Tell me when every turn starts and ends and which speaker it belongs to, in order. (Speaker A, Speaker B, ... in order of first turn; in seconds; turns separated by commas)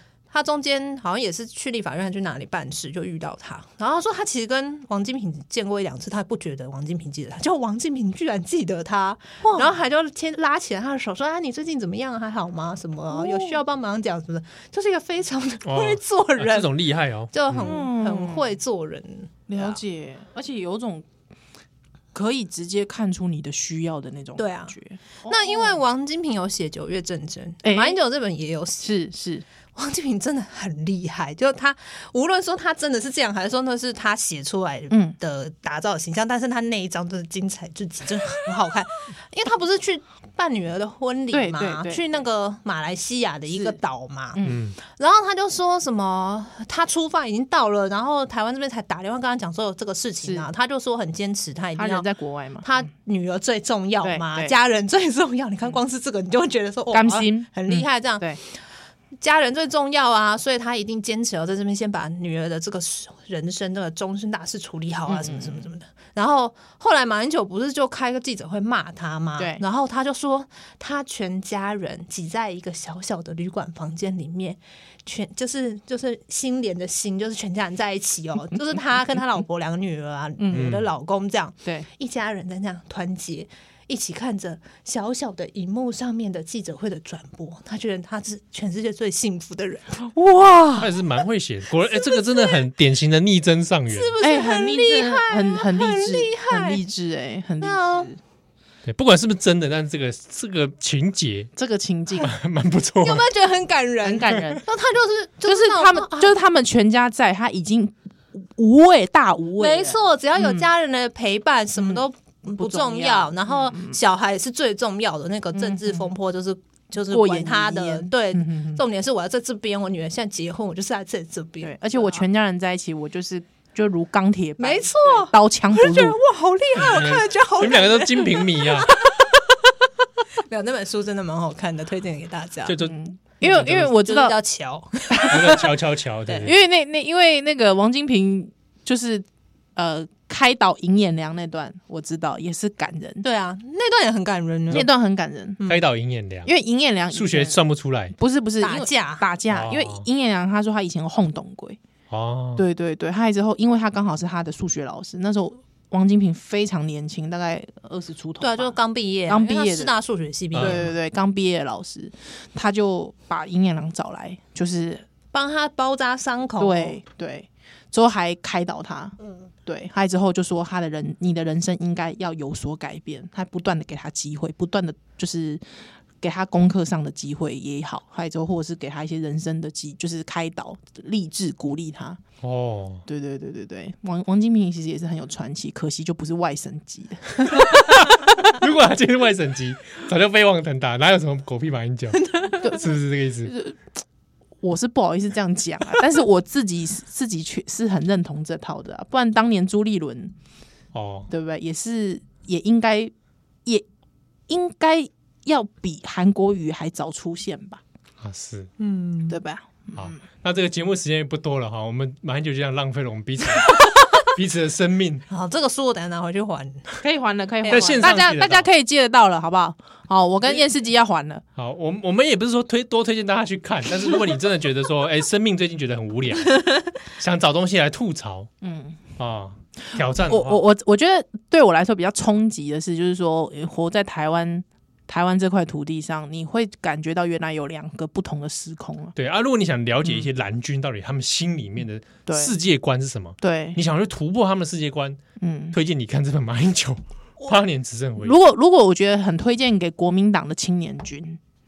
Speaker A: 0.3-16.7, Speaker B: 9.4-9.7, Speaker B: 13.1-13.6, Speaker C: 15.6-17.8, Speaker A: 17.3-19.8, Speaker B: 17.6-18.6, Speaker B: 19.5-21.1, Speaker B: 22.1-25.8, Speaker A: 24.4-28.9, Speaker B: 27.6-28.0, Speaker B: 28.8-29.4, Speaker A: 29.7-52.1, Speaker B: 34.9-35.2, Speaker B: 41.3-42.0, Speaker B: 43.5-43.8, Speaker B: 44.3-44.6, Speaker C: 44.4-44.8, Speaker B: 51.8-52.7, Speaker A: 52.6-58.6, Speaker B: 54.0-54.5, Speaker B: 56.9-58.4, Speaker A: 59.2-90.0, Speaker B: 65.1-65.7, Speaker B: 80.4-80.6, Speaker C: 80.5-80.9, Speaker B: 90.0-91.0, Speaker C: 90.8-94.1, Speaker A: 92.2-92.5, Speaker A: 93.9-96.8, Speaker B: 94.2-98.2, Speaker A: 97.6-98.1, Speaker C: 98.8-101.5, Speaker B: 101.5-102.3, Speaker C: 102.2-103.3, Speaker A: 103.0-106.3, Speaker B: 104.0-104.6, Speaker B: 105.5-110.7, Speaker A: 109.6-122.2, Speaker B: 112.6-114.0, Speaker B: 115.5-116.1, Speaker B: 117.1-118.8, Speaker B: 121.6-126.2, Speaker A: 124.6-129.7, Speaker C: 126.8-129.0, Speaker A: 130.4-132.8, Speaker C: 132.7-133.9, Speaker B: 132.8-134.4, Speaker A: 133.7-135.7, Speaker B: 135.1-135.6, Speaker C: 135.3-136.6, Speaker A: 136.3-136.5, Speaker B: 136.4-143.2, Speaker A: 143.2-144.9, Speaker B: 144.7-145.6, Speaker C: 145.7-146.5, Speaker B: 146.4-147.6, Speaker C: 147.1-148.2, Speaker B: 148.2-151.8, Speaker A: 148.6-149.2, Speaker C: 149.5-150.1, Speaker C: 152.1-152.6, Speaker B: 152.6-158.8, Speaker A: 158.4-160.8, Speaker B: 159.3-159.9, Speaker C: 160.5-160.9, Speaker B: 160.6-165.0, Speaker A: 165.3-167.0, Speaker B: 166.6-175.6, Speaker A: 169.2-169.5, Speaker B: 176.2-182.2, Speaker C: 182.4-183.0, Speaker B: 183.1-188.3, Speaker C: 187.5-193.5, Speaker A: 192.2-192.7, Speaker B: 193.4-194.0, Speaker B: 194.6-200.3, Speaker C: 200.9-201.3, Speaker B: 201.3-203.1, Speaker B: 204.5-207.8, Speaker C: 208.2-208.7, Speaker A: 208.8-209.4, Speaker B: 209.3-210.2, Speaker C: 209.9-215.2, Speaker A: 213.8-214.1, Speaker A: 215.3-216.9, Speaker B: 217.0-221.4, Speaker C: 217.7-218.7, Speaker A: 217.7-218.1, Speaker C: 221.6-228.5, Speaker B: 228.6-229.0, Speaker C: 229.2-230.6, Speaker B: 230.2-239.1, Speaker C: 239.2-245.2, Speaker B: 242.3-242.5, Speaker B: 243.4-243.8, Speaker B: 245.4-245.8, Speaker C: 245.7-248.4, Speaker B: 248.2-251.4